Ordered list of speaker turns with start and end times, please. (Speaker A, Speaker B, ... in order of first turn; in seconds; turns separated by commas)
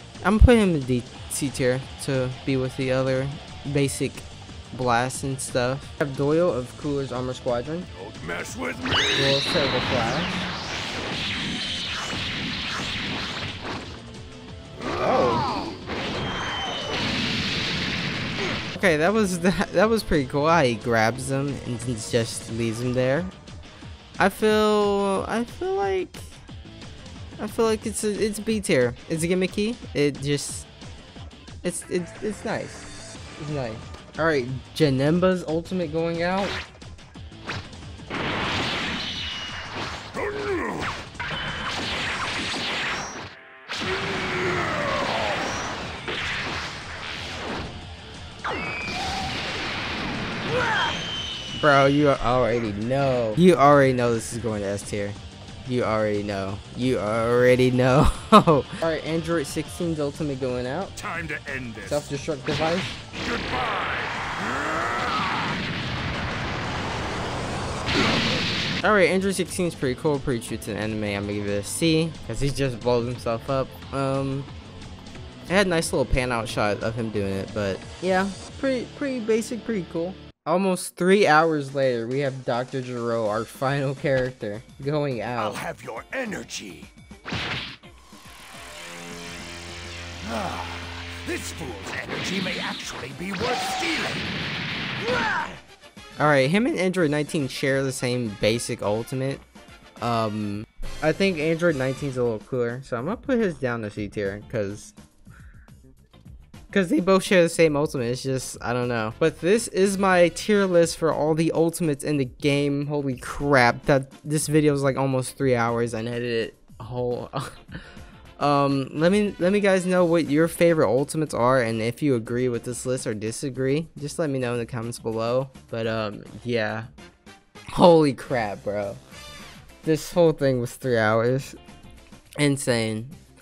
Speaker A: 0.2-7.9, Speaker B: 7.9-9.4, Speaker A: 9.1-10.4, Speaker B: 14.9-15.7, Speaker A: 14.9-15.5, Speaker A: 18.7-23.3, Speaker A: 24.2-26.3, Speaker A: 27.4-30.7, Speaker A: 31.6-36.6, Speaker B: 40.1-40.9, Speaker A: 51.5-60.9, Speaker B: 61.0-62.1, Speaker A: 61.9-63.0, Speaker B: 63.1-65.4, Speaker A: 68.8-74.5, Speaker A: 75.5-85.6, Speaker B: 85.4-86.9, Speaker B: 90.2-94.3, Speaker B: 95.0-95.6, Speaker A: 96.2-99.4, Speaker A: 100.0-104.9, Speaker A: 106.7-117.8, Speaker A: 118.4-126.9, Speaker A: 127.7-129.0, Speaker A: 129.8-131.6, Speaker A: 132.4-133.2